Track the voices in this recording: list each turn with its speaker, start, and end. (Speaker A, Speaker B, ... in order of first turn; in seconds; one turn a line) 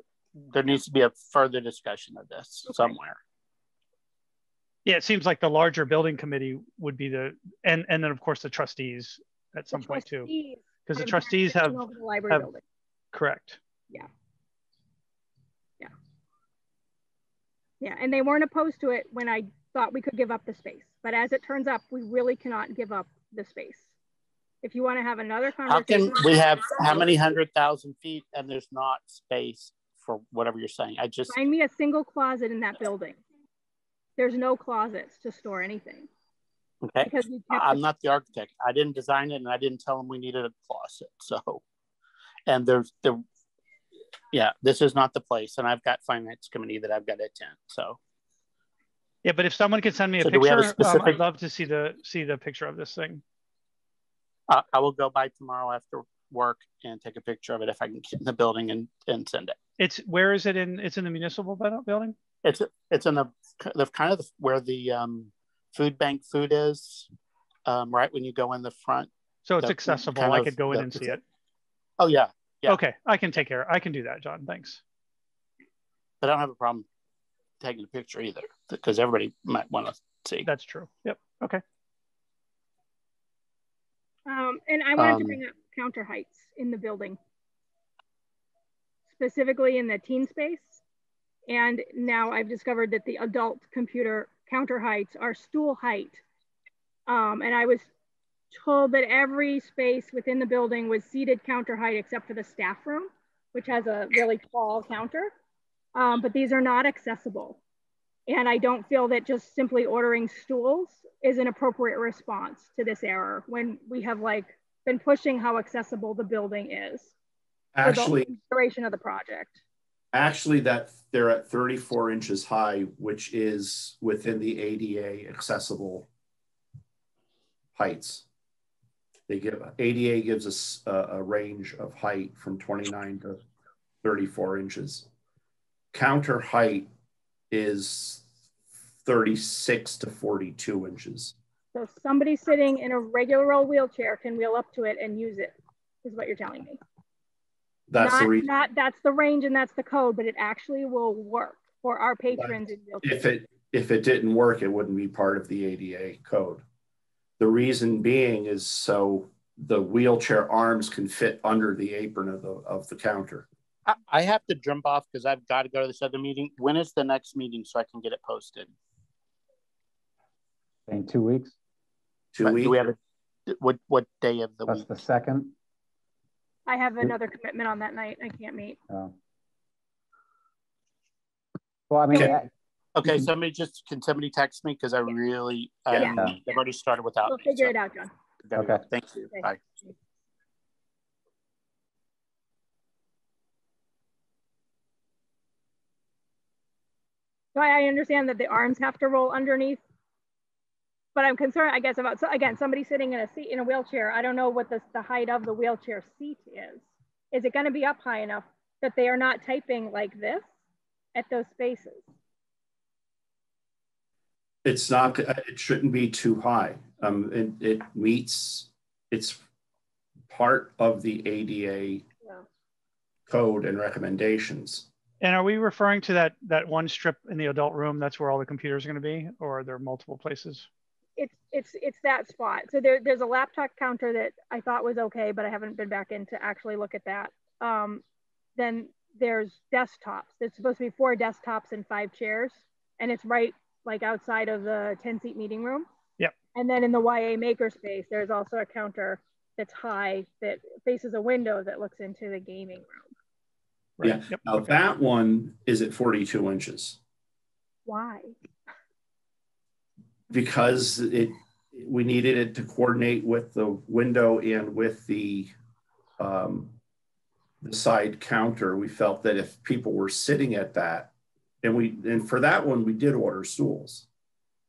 Speaker A: 0.5-3.2
Speaker B: 2.6-3.0
Speaker C: 4.8-10.3
Speaker B: 9.7-12.6
Speaker C: 10.9-12.5
Speaker C: 13.1-13.6
Speaker B: 17.8-23.9
Speaker B: 24.6-27.1
Speaker A: 25.7-31.4
Speaker B: 31.3-33.2
Speaker B: 34.2-36.1
Speaker A: 36.8-41.6
Speaker B: 37.0-37.8
Speaker A: 42.5-43.2
Speaker A: 44.3-48.0
Speaker C: 49.2-53.2
Speaker A: 50.2-51.2
Speaker A: 54.5-59.5
Speaker C: 59.8-62.1
Speaker A: 62.4-67.1
Speaker A: 67.7-71.2
Speaker C: 69.5-71.2
Speaker A: 72.0-72.8
Speaker C: 72.7-74.8
Speaker A: 76.2-76.8
Speaker A: 77.6-80.5
Speaker C: 80.5-81.6
Speaker B: 84.3-87.2
Speaker A: 85.0-85.4
Speaker B: 89.1-90.8
Speaker B: 91.5-96.2
Speaker B: 97.1-97.9
Speaker B: 98.5-105.3
Speaker B: 105.9-107.6
Speaker B: 108.3-117.1
Speaker D: 117.7-118.3
Speaker B: 117.8-119.6
Speaker D: 120.1-126.1
Speaker D: 127.7-128.2
Speaker D: 129.3-133.4
Speaker D: 134.0-135.1
Speaker D: 135.9-136.9
Speaker D: 137.5-138.2
Speaker D: 139.0-141.3
Speaker B: 141.7-146.8
Speaker D: 147.9-148.5
Speaker B: 148.0-153.2
Speaker D: 152.3-156.6
Speaker D: 157.4-163.5
Speaker A: 163.9-168.7
Speaker E: 170.9-171.5
Speaker D: 172.3-172.8
Speaker A: 172.4-174.8
Speaker E: 174.7-175.5
Speaker B: 176.7-178.8
Speaker E: 181.9-182.5
Speaker A: 182.9-187.7
Speaker B: 185.9-186.6
Speaker E: 186.1-186.4
Speaker B: 187.2-188.1
Speaker A: 188.4-189.7
Speaker E: 188.6-188.8
Speaker B: 189.3-189.9
Speaker B: 197.5-199.8
Speaker B: 201.2-210.5
Speaker B: 211.1-212.1
Speaker D: 214.6-219.4
Speaker D: 220.3-222.0
Speaker D: 223.3-224.9
Speaker C: 225.2-230.7
Speaker B: 231.2-238.0
Speaker B: 238.6-245.9
Speaker B: 246.5-253.1
Speaker C: 254.0-254.7
Speaker D: 254.0-257.0
Speaker B: 257.9-258.4
Speaker D: 260.3-265.5
Speaker D: 266.2-266.7
Speaker D: 267.6-271.1
Speaker D: 271.6-274.1